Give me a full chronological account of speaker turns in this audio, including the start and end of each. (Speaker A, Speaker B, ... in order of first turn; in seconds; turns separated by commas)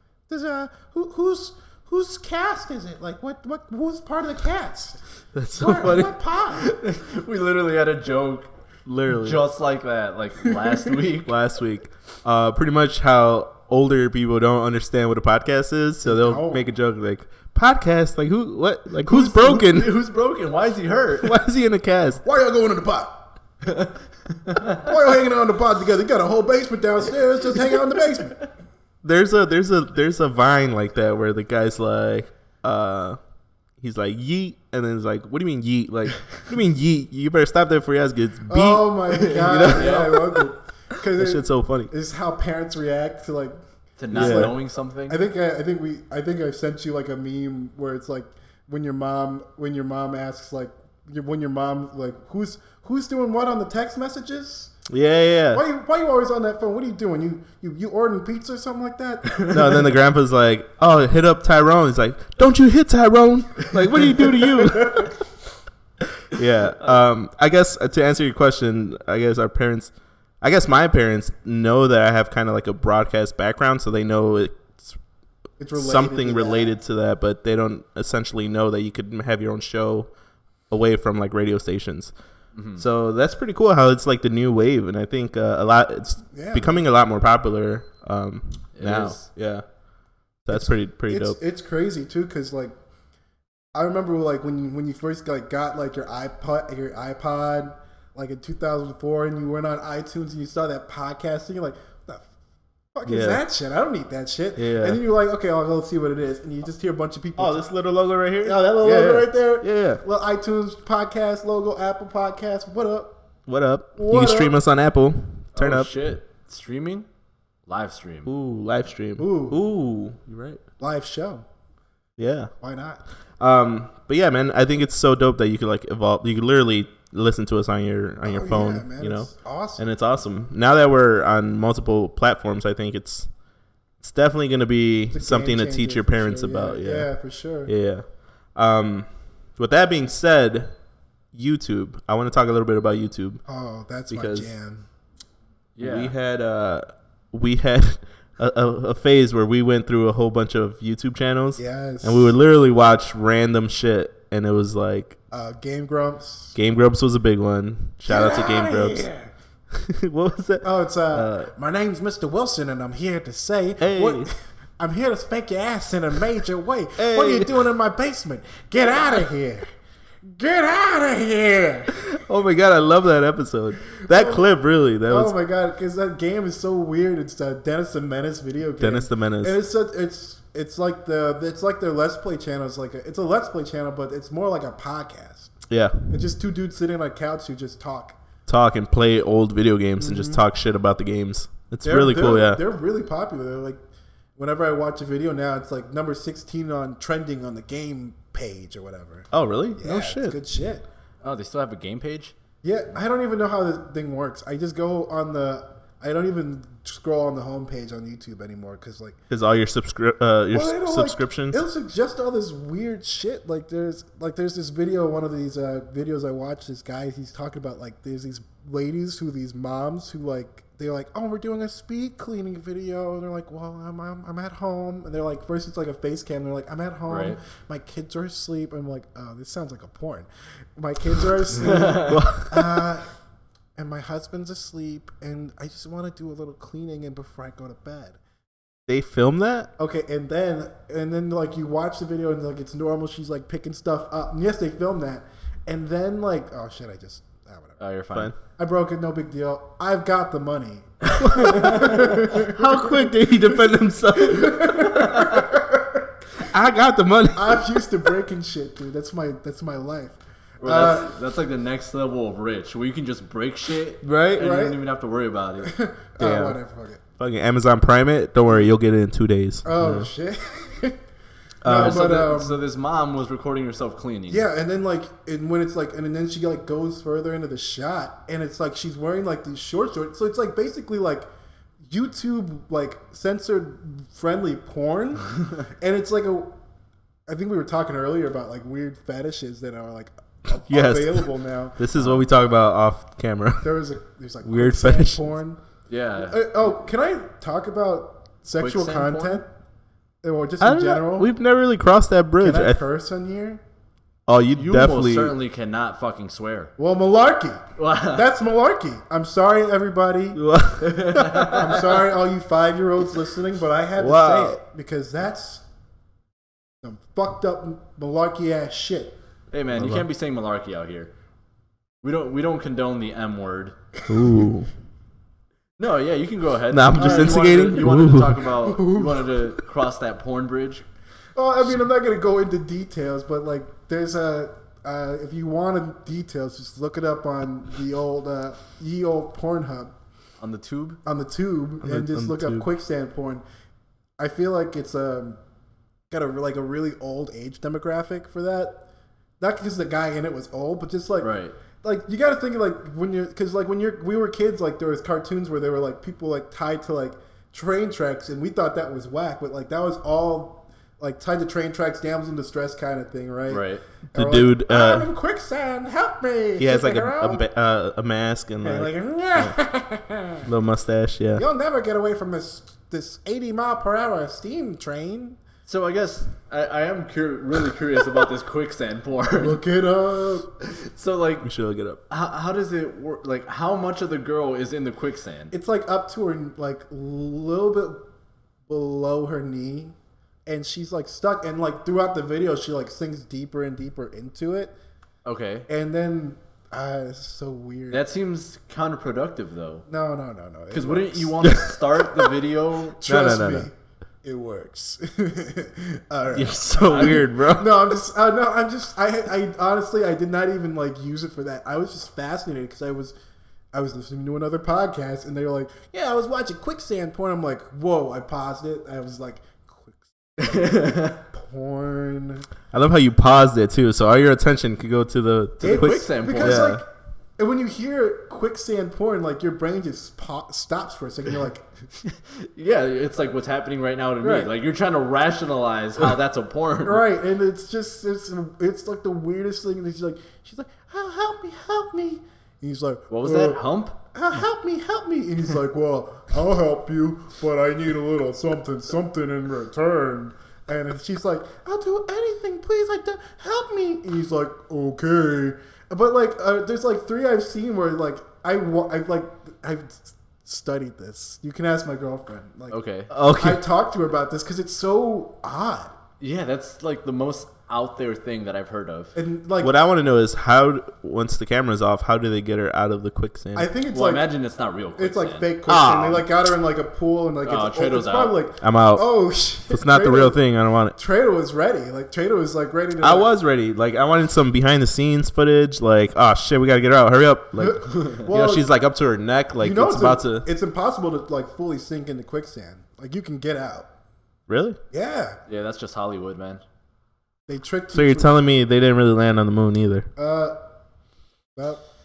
Speaker A: 0.3-5.0, Speaker B: 5.3-6.2, Speaker A: 5.6-6.7, Speaker C: 6.5-8.5, Speaker B: 8.9-9.4, Speaker C: 9.1-11.3, Speaker B: 11.2-19.9, Speaker A: 16.0-16.6, Speaker C: 19.1-21.4, Speaker B: 21.2-22.2, Speaker A: 22.2-23.3, Speaker C: 23.6-24.9, Speaker A: 24.6-28.5, Speaker B: 29.0-33.2, Speaker B: 33.8-40.2, Speaker A: 38.5-43.6, Speaker C: 39.5-40.4, Speaker B: 41.1-41.9, Speaker C: 44.0-45.2, Speaker A: 44.1-54.7, Speaker B: 44.1-44.5, Speaker B: 54.9-55.6, Speaker A: 55.5-59.9, Speaker B: 59.5-65.1, Speaker A: 64.5-65.1, Speaker B: 66.3-75.0, Speaker A: 75.6-76.7, Speaker B: 75.7-80.1, Speaker B: 80.7-82.1, Speaker C: 82.5-82.8, Speaker B: 82.8-89.6, Speaker A: 86.3-86.8, Speaker C: 88.8-89.3, Speaker B: 90.5-91.4, Speaker A: 90.5-92.7, Speaker A: 93.7-102.2, Speaker A: 102.9-107.7, Speaker B: 103.1-103.4, Speaker B: 104.6-105.0, Speaker B: 107.4-110.0, Speaker A: 108.4-113.2, Speaker B: 113.5-115.9, Speaker A: 114.0-114.6, Speaker C: 115.5-117.1, Speaker C: 117.7-118.3, Speaker B: 118.2-120.6, Speaker A: 119.2-119.6, Speaker A: 120.8-121.4, Speaker B: 122.2-122.5, Speaker A: 122.6-123.0, Speaker B: 123.4-133.3, Speaker A: 128.2-129.9, Speaker B: 134.0-137.1, Speaker A: 135.1-137.7, Speaker B: 137.7-140.7, Speaker B: 141.3-143.4, Speaker A: 143.5-144.9, Speaker B: 144.1-144.5, Speaker C: 145.8-146.1, Speaker B: 145.8-155.2, Speaker A: 151.6-152.3, Speaker A: 155.3-156.6, Speaker B: 156.6-159.1, Speaker A: 158.1-159.3, Speaker B: 159.7-161.5, Speaker A: 160.6-169.7, Speaker B: 163.8-164.3, Speaker B: 167.0-167.7, Speaker A: 170.2-172.1, Speaker B: 172.0-175.3, Speaker A: 173.9-174.5, Speaker A: 175.1-185.6, Speaker B: 178.8-179.6, Speaker B: 185.7-186.2, Speaker A: 186.1-188.2, Speaker B: 188.5-192.6, Speaker A: 190.0-190.4, Speaker A: 191.8-193.8, Speaker A: 194.4-200.8, Speaker B: 199.3-200.4, Speaker C: 201.2-202.3, Speaker A: 202.6-209.2, Speaker B: 209.3-211.6, Speaker A: 210.5-233.1, Speaker C: 227.1-227.4, Speaker C: 231.6-232.2, Speaker B: 232.1-232.9, Speaker A: 233.8-238.2, Speaker B: 238.9-239.7, Speaker A: 239.8-247.8, Speaker C: 247.8-248.3, Speaker A: 248.6-256.1, Speaker B: 251.2-255.4, Speaker C: 251.4-251.9, Speaker B: 256.4-257.7, Speaker A: 257.3-261.1, Speaker C: 260.6-265.7, Speaker B: 264.0-264.5, Speaker A: 264.4-264.8, Speaker A: 265.6-267.0, Speaker B: 266.2-266.6, Speaker B: 267.2-270.1, Speaker A: 269.6-271.0, Speaker B: 271.6-272.1, Speaker A: 271.6-272.6, Speaker C: 271.7-274.4, Speaker A: 274.3-281.3, Speaker A: 281.9-286.5, Speaker A: 287.3-291.9, Speaker B: 290.7-293.7, Speaker C: 291.9-292.2, Speaker A: 293.6-295.6, Speaker B: 294.4-295.2, Speaker C: 295.9-296.6, Speaker A: 296.2-299.4, Speaker C: 298.6-299.4, Speaker A: 300.2-301.3, Speaker B: 300.6-302.8, Speaker A: 302.4-303.6, Speaker B: 304.3-305.4, Speaker C: 304.6-306.7, Speaker A: 306.8-310.4, Speaker C: 307.8-308.3, Speaker B: 310.4-311.8, Speaker C: 310.8-311.9, Speaker A: 311.2-315.6, Speaker B: 314.0-314.6, Speaker A: 316.8-319.1, Speaker C: 319.5-321.1, Speaker B: 319.8-320.0, Speaker C: 322.0-323.8, Speaker B: 324.1-324.7, Speaker C: 325.8-330.9, Speaker B: 326.7-328.4, Speaker A: 326.9-327.6, Speaker A: 328.6-329.3, Speaker A: 331.4-339.9, Speaker C: 340.4-341.0, Speaker A: 341.1-343.4, Speaker B: 341.8-342.7, Speaker A: 344.2-345.4, Speaker A: 346.1-348.9, Speaker A: 349.4-367.4, Speaker C: 351.2-351.6, Speaker C: 363.5-363.8, Speaker B: 364.1-365.1, Speaker B: 366.6-369.6, Speaker A: 368.6-370.5, Speaker B: 370.4-371.4, Speaker A: 371.4-375.4, Speaker C: 375.7-379.6, Speaker A: 379.4-380.5, Speaker C: 380.6-381.5, Speaker B: 381.4-382.0, Speaker C: 382.1-385.5, Speaker A: 385.5-388.1, Speaker A: 388.7-389.9, Speaker A: 390.4-394.7, Speaker C: 395.2-395.7, Speaker A: 395.7-398.0, Speaker C: 397.9-399.9, Speaker A: 399.9-401.6, Speaker C: 400.7-403.0, Speaker B: 401.4-402.0, Speaker A: 403.0-413.1, Speaker B: 403.0-403.7, Speaker B: 406.3-407.9, Speaker C: 406.9-407.2, Speaker A: 413.7-422.5, Speaker C: 420.4-421.2, Speaker B: 422.7-426.8, Speaker A: 425.6-426.9, Speaker C: 425.6-426.7, Speaker A: 427.4-431.6, Speaker C: 432.1-437.0, Speaker A: 434.2-434.5, Speaker A: 436.9-443.6, Speaker C: 443.1-444.0, Speaker A: 444.1-465.9, Speaker C: 462.7-463.1, Speaker B: 463.1-463.6, Speaker C: 466.2-469.1, Speaker A: 469.1-469.7, Speaker B: 469.6-473.7, Speaker A: 473.6-474.3, Speaker C: 473.9-475.5, Speaker A: 475.0-480.4, Speaker B: 475.7-476.3, Speaker C: 477.4-478.4, Speaker B: 478.6-479.1, Speaker B: 479.7-481.0, Speaker A: 480.9-483.3, Speaker B: 483.0-490.4, Speaker A: 487.6-488.7, Speaker C: 487.9-488.2, Speaker A: 489.6-493.9, Speaker B: 494.5-494.8, Speaker A: 494.9-495.4, Speaker C: 495.5-496.6, Speaker A: 497.5-498.4, Speaker B: 497.9-500.1, Speaker A: 500.2-500.6, Speaker A: 501.6-501.8